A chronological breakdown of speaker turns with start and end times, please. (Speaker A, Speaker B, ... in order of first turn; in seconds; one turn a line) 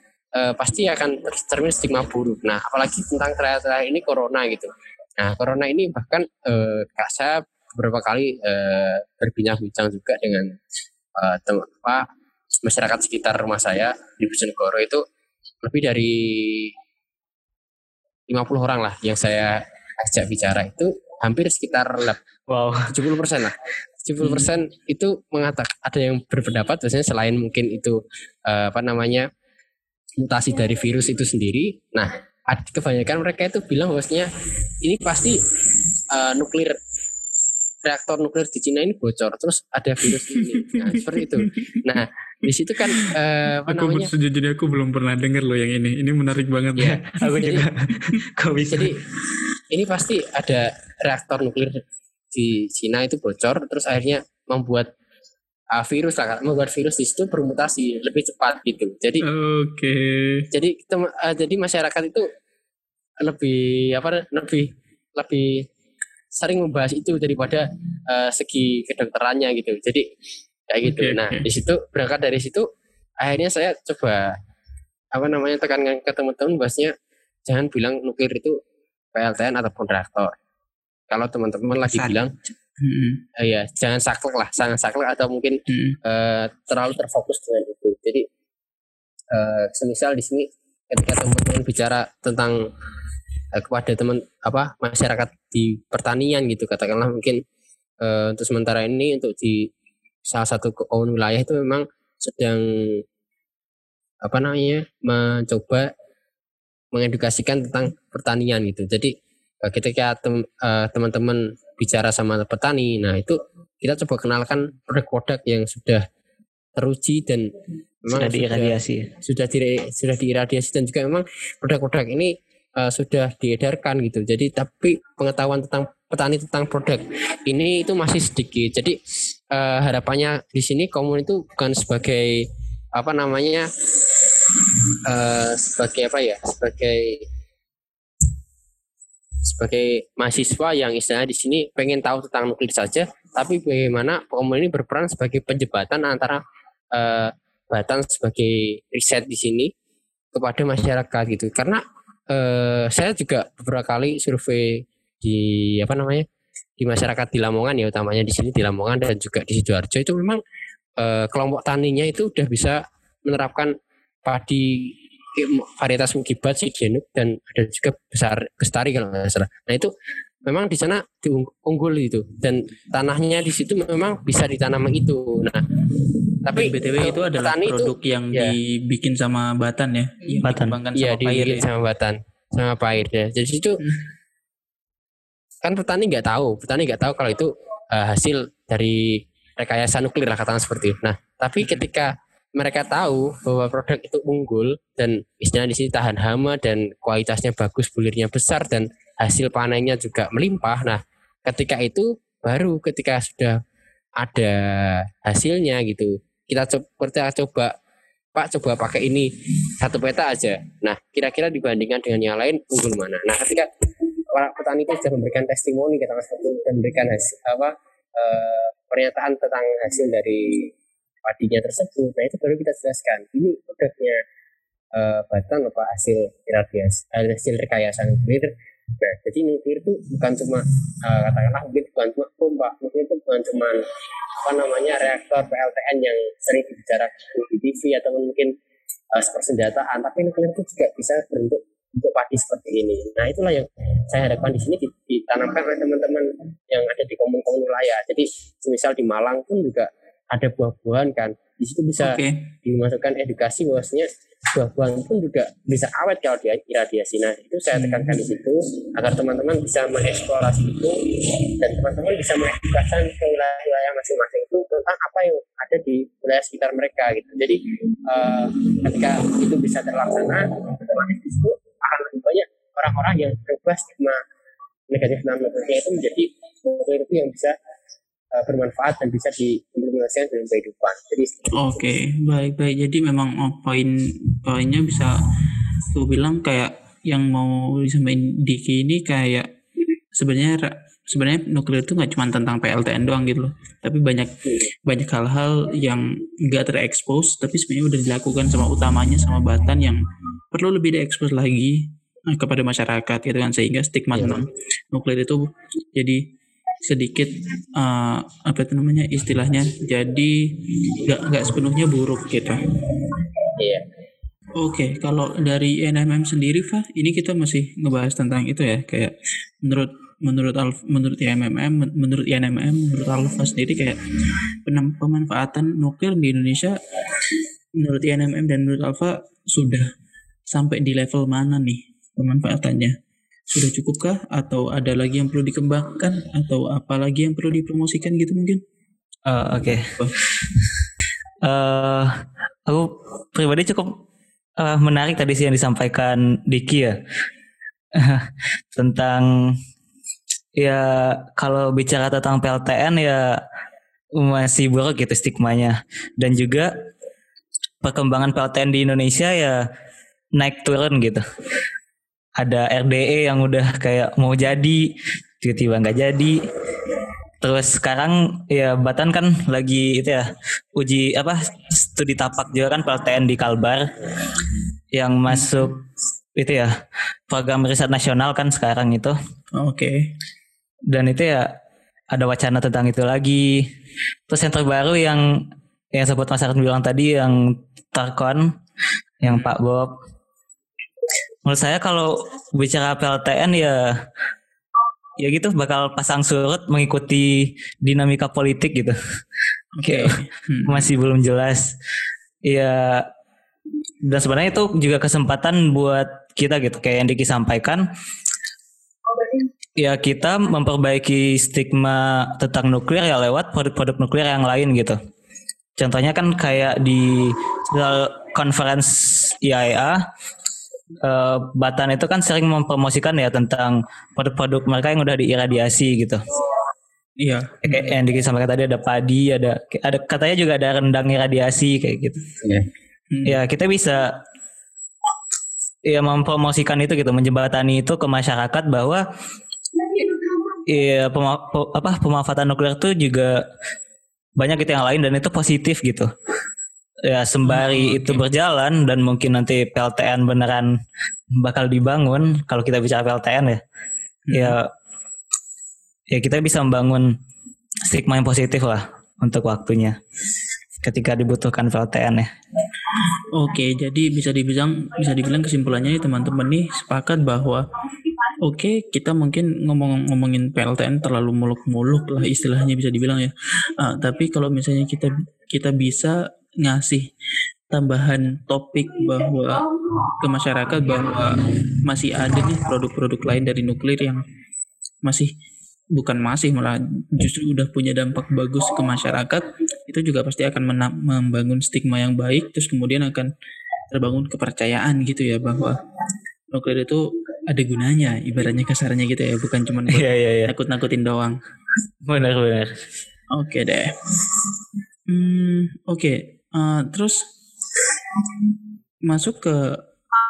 Speaker A: 0.3-10.5
Speaker A: 11.2-12.1
Speaker A: 12.6-15.0
Speaker A: 15.6-16.7
Speaker A: 18.3-22.2
Speaker B: 22.5-22.9
Speaker A: 22.9-29.3
Speaker C: 24.2-24.5
Speaker A: 30.2-34.3
Speaker A: 34.8-35.4
Speaker A: 36.1-36.8
Speaker A: 37.8-44.1
Speaker C: 40.6-41.8
Speaker C: 43.7-47.5
Speaker A: 46.8-47.6
Speaker B: 46.9-48.9
Speaker A: 49.7-51.8
Speaker A: 52.4-54.9
Speaker A: 55.7-59.2
Speaker C: 59.2-60.5
Speaker A: 60.5-62.3
Speaker A: 63.2-65.6
Speaker A: 66.3-70.0
Speaker A: 70.7-72.7
Speaker C: 70.8-71.4
Speaker A: 73.2-74.3
Speaker A: 75.1-76.9
Speaker A: 77.5-78.6
Speaker A: 79.1-80.3
Speaker A: 81.1-82.3
Speaker C: 82.8-83.2
Speaker A: 83.4-88.2
Speaker C: 85.7-86.0
Speaker A: 89.3-92.6
Speaker A: 93.5-97.4
Speaker A: 98.0-99.7
Speaker A: 100.3-103.0
Speaker A: 104.2-105.9
Speaker A: 106.9-109.1
Speaker A: 109.6-116.0
Speaker A: 116.8-117.5
Speaker A: 118.0-129.0
Speaker B: 118.1-119.1
Speaker A: 129.5-133.7
Speaker A: 135.1-137.2
Speaker A: 139.4-146.4
Speaker A: 146.9-149.7
Speaker A: 150.3-156.2
Speaker A: 156.8-160.4
Speaker A: 161.0-163.7
Speaker A: 164.2-169.9
Speaker A: 170.4-175.8
Speaker A: 176.4-178.5
Speaker C: 176.5-181.6
Speaker B: 180.4-180.8
Speaker A: 180.9-183.8
Speaker A: 185.6-203.6
Speaker A: 204.2-207.7
Speaker A: 208.3-213.7
Speaker A: 214.3-220.7
Speaker A: 221.2-224.2
Speaker A: 224.9-233.8
Speaker A: 234.4-238.5
Speaker A: 239.1-274.2
Speaker C: 252.0-252.4
Speaker C: 257.7-258.2
Speaker A: 274.9-277.5
Speaker A: 278.3-281.8
Speaker C: 281.5-285.2
Speaker C: 285.8-289.5
Speaker C: 290.1-306.2
Speaker C: 306.8-312.6
Speaker A: 313.6-313.8
Speaker C: 314.6-324.0
Speaker C: 324.6-326.8
Speaker C: 327.8-329.9
Speaker C: 330.5-332.9
Speaker C: 333.5-338.6
Speaker B: 339.2-340.0
Speaker B: 341.4-344.0
Speaker B: 344.6-347.0
Speaker B: 347.9-349.6
Speaker B: 350.6-353.4
Speaker B: 354.1-356.8
Speaker B: 357.8-359.6
Speaker B: 360.4-361.2
Speaker B: 362.4-366.4
Speaker B: 367.4-373.9
Speaker B: 374.9-375.8
Speaker C: 375.3-375.6
Speaker B: 376.4-376.7
Speaker B: 377.3-379.1
Speaker C: 379.5-380.1
Speaker B: 380.9-381.6
Speaker B: 382.1-383.7
Speaker B: 384.3-388.5
Speaker B: 389.2-389.9
Speaker B: 391.4-394.0
Speaker B: 395.2-399.0
Speaker C: 399.8-400.9
Speaker B: 399.8-401.7
Speaker B: 402.4-403.1
Speaker B: 404.0-407.9
Speaker B: 409.8-415.0
Speaker B: 415.8-420.0
Speaker B: 421.0-426.2
Speaker C: 427.2-427.9
Speaker B: 427.6-432.2
Speaker C: 433.1-433.4
Speaker B: 433.2-434.2
Speaker B: 435.9-439.1
Speaker B: 440.6-443.4
Speaker B: 444.4-446.1
Speaker B: 447.0-450.7
Speaker C: 447.4-448.2
Speaker B: 451.4-453.6
Speaker C: 454.3-454.6
Speaker B: 454.3-454.7
Speaker B: 456.1-457.1
Speaker B: 457.8-460.0
Speaker B: 460.8-462.3
Speaker C: 463.1-467.7
Speaker C: 468.4-477.1
Speaker C: 477.7-484.2
Speaker C: 485.0-485.3
Speaker C: 485.9-493.3
Speaker C: 493.9-495.8
Speaker C: 496.5-501.4
Speaker B: 499.9-500.5
Speaker B: 502.0-502.8
Speaker C: 503.3-503.9
Speaker C: 505.1-507.3
Speaker C: 509.1-509.8